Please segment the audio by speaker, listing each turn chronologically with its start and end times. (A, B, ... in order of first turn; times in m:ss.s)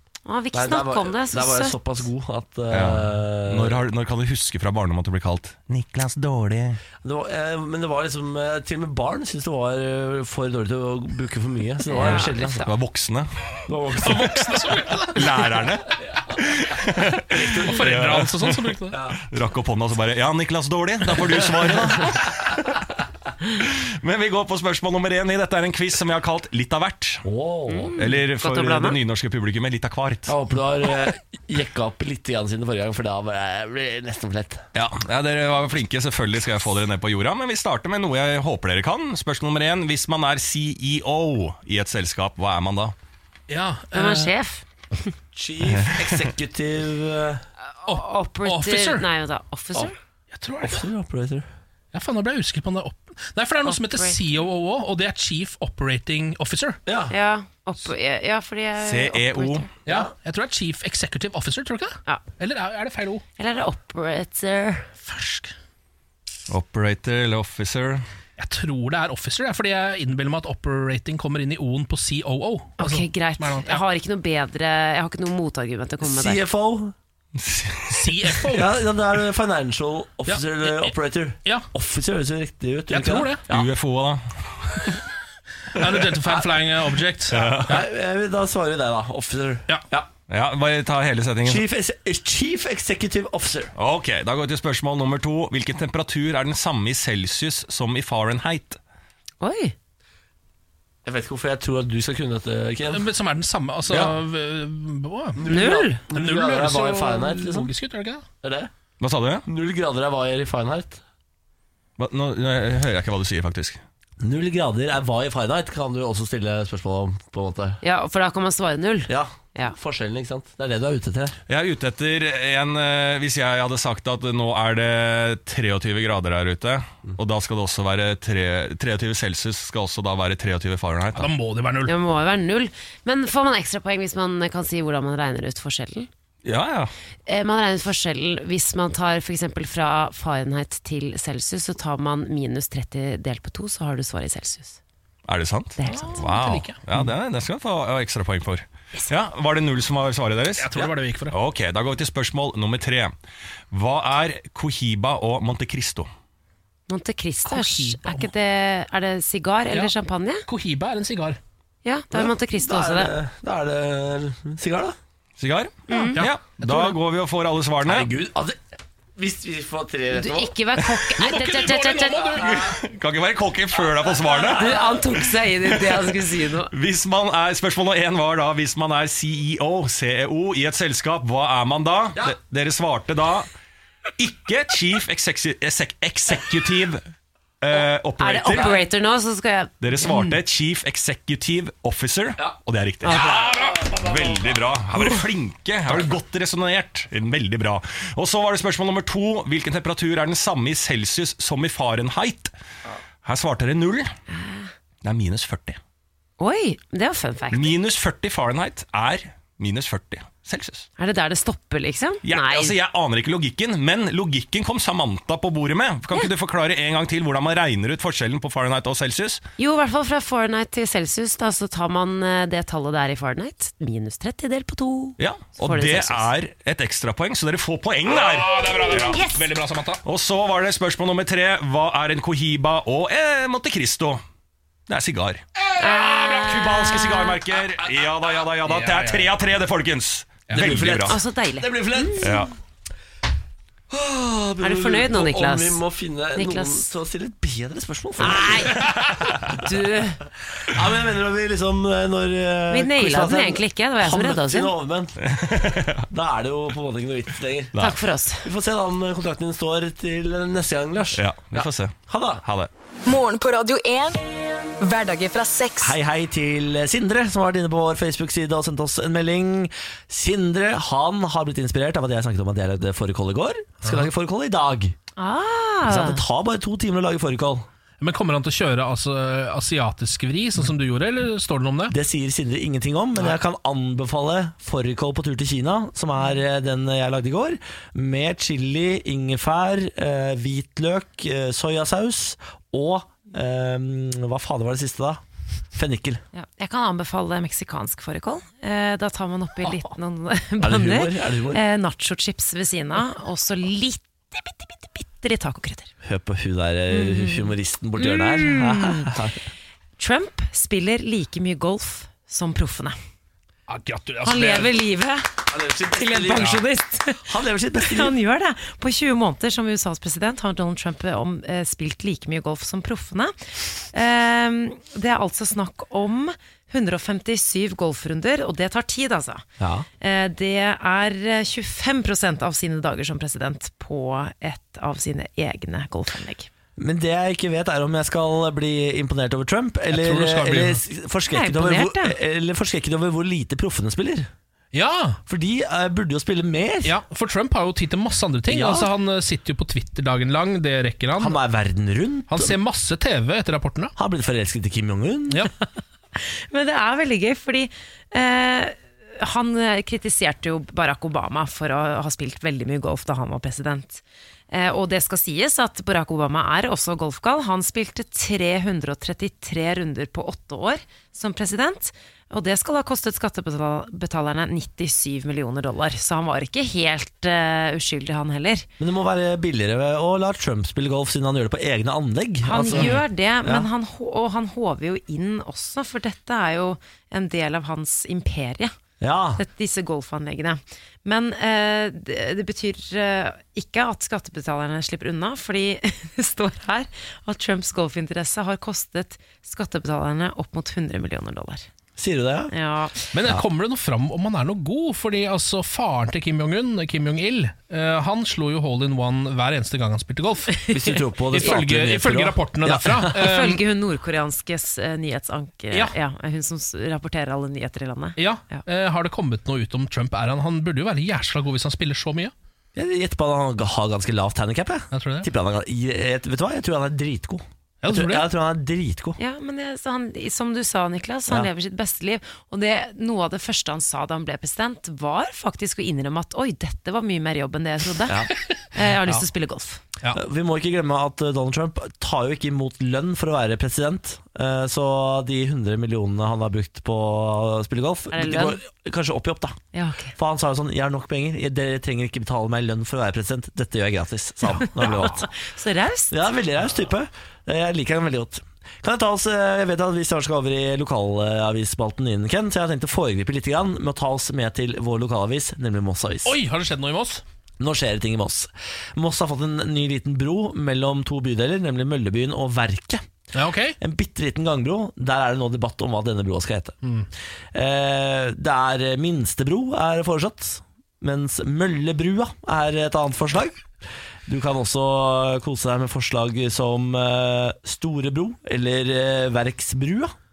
0:00.3-0:02.1 A
0:00.5-0:03.8 B
0:02.7-0:06.8 C
0:07.0-0:12.6 B
0:11.9-0:12.7 A
0:12.5-0:13.3 C
0:13.7-0:14.4 B
0:14.0-0:15.3 D
0:15.1-0:18.7 C
0:17.3-0:18.0 B
0:17.6-0:19.0 D
0:18.9-0:19.2 B
0:19.3-0:22.6 C
0:23.6-0:27.2 C
0:27.2-0:27.9 B
0:27.7-0:29.0 A
0:28.0-0:30.3 C
0:30.3-0:34.7 B
0:34.8-0:43.0 C
0:43.5-0:44.3 D
0:43.9-0:45.1 A
0:45.3-0:47.4 B
0:45.7-0:46.0 C
0:47.8-0:50.0 A
0:47.9-0:49.1 D
0:50.3-0:50.8 D
0:50.6-0:51.5 B
0:51.9-0:56.8 D
0:53.6-0:54.4 A
0:56.9-0:57.1 B
0:57.1-0:59.7 A
0:58.8-0:59.7 C
0:59.9-1:03.2 D
0:59.9-1:00.1 B
1:03.4-1:04.9 A
1:05.1-1:05.5 D
1:06.5-1:08.0 C
1:08.4-1:13.8 D
1:12.8-1:16.4 A
1:16.0-1:17.0 B
1:17.4-1:18.1 C
1:17.9-1:18.8 D
1:18.5-1:23.7 B
1:20.3-1:20.9 D
1:22.9-1:23.4 D
1:23.5-1:24.9 C
1:25.7-1:27.8 D
1:25.8-1:26.1 C
1:27.3-1:27.8 C
1:27.4-1:30.1 B
1:30.3-1:31.6 C
1:31.5-1:33.7 B
1:33.8-1:38.8 C
1:39.4-1:39.8 A
1:41.0-1:43.0 B
1:42.9-1:45.6 D
1:45.4-1:47.7 B
1:45.5-1:46.0 A
1:46.1-1:48.3 D
1:48.4-1:48.7 B
1:49.0-1:49.4 C
1:49.5-1:51.0 B
1:52.0-1:53.8 C
1:54.2-1:57.8 B
1:57.8-1:59.8 A
1:59.1-2:01.4 B
2:01.5-2:11.3 C
2:11.2-2:11.9 D
2:11.8-2:16.1 A
2:16.4-2:16.9 C
2:17.3-2:24.8 A
2:25.3-2:33.2 C
2:25.8-2:26.3 A
2:25.8-2:26.8 D
2:30.6-2:31.4 D
2:33.7-2:36.1 C
2:36.9-2:40.4 A
2:37.5-2:38.3 D
2:40.5-2:41.4 D
2:41.8-2:43.1 A
2:42.1-2:45.0 B
2:45.4-2:48.1 C
2:45.9-2:46.2 A
2:46.2-2:47.0 D
2:47.9-2:48.6 B
2:49.2-2:50.5 B
2:50.1-2:52.5 A
2:51.2-2:52.8 D
2:52.7-2:54.7 C
2:54.4-2:56.7 A
2:55.7-2:56.2 C
2:56.7-3:03.5 C
3:04.2-3:07.0 C
3:07.6-3:08.8 C
3:07.7-3:10.3 A
3:09.8-3:22.5 C
3:13.8-3:14.4 B
3:23.2-3:24.1 C
3:24.3-3:24.7 A
3:25.0-3:25.8 C
3:26.4-3:27.8 A
3:27.5-3:30.9 C
3:31.0-3:32.8 A
3:32.2-3:39.4 C
3:39.6-3:46.3 A
3:45.2-3:49.2 C
3:48.1-3:50.0 D
3:50.0-3:54.2 C
3:54.9-3:55.4 C
3:55.7-3:56.7 D
3:55.8-3:57.4 A
3:56.4-4:01.2 C
3:58.6-3:59.3 D
4:00.5-4:00.9 D
4:00.5-4:02.4 B
4:01.1-4:02.3 A
4:02.2-4:02.5 C
4:03.9-4:08.8 B
4:04.6-4:05.8 A
4:06.4-4:06.9 A
4:08.2-4:10.2 A
4:10.7-4:15.2 B
4:12.7-4:14.7 A
4:15.2-4:16.0 C
4:16.1-4:17.8 B
4:17.7-4:18.0 C
4:17.8-4:18.5 A
4:18.4-4:22.4 B
4:21.2-4:22.7 C
4:23.1-4:24.2 E
4:24.8-4:26.0 E
4:25.8-4:35.0 B
4:35.2-4:36.2 A
4:35.8-4:37.7 B
4:38.0-4:41.9 D
4:41.9-4:55.2 B
4:55.7-4:56.2 B
4:56.3-5:05.9 A
5:00.6-5:01.6 B
5:06.0-5:09.4 B
5:06.9-5:09.2 A
5:10.0-5:13.0 A
5:13.7-5:14.7 D
5:14.2-5:17.2 A
5:15.5-5:16.6 B
5:17.2-5:18.1 B
5:17.8-5:23.3 A
5:23.9-5:29.5 A
5:29.6-5:29.9 B
5:30.0-5:36.5 A
5:36.8-5:44.3 B
5:39.9-5:40.8 D
5:41.3-5:42.2 A
5:44.7-5:45.2 D
5:45.3-5:47.0 B
5:46.8-5:51.4 D
5:48.5-5:48.9 B
5:51.2-5:52.6 B
5:52.3-5:53.9 D
5:54.0-5:55.4 B
5:56.2-6:18.7 A
6:18.8-6:23.7 B
6:22.4-6:28.8 A
6:22.7-6:23.0 D
6:29.0-6:29.4 B
6:29.4-6:41.7 A
6:42.0-6:42.5 B
6:42.5-6:43.1 A
6:43.1-6:50.6 D
6:50.7-6:53.1 B
6:51.3-6:53.6 D
6:53.1-6:58.6 A
6:58.2-7:02.3 D
7:02.8-7:09.2 B
7:04.9-7:05.3 D
7:07.8-7:08.2 D
7:09.2-7:19.8 A
7:20.1-7:29.6 B
7:28.1-7:28.6 A
7:29.7-7:30.1 A
7:30.2-7:35.3 B
7:34.6-7:36.1 A
7:36.1-7:46.4 B
7:46.2-7:47.2 D
7:47.6-7:53.0 B
7:53.3-7:53.8 D
7:53.8-7:56.8 B
7:56.8-7:57.1 D
7:57.5-8:03.7 B
8:04.3-8:10.1 B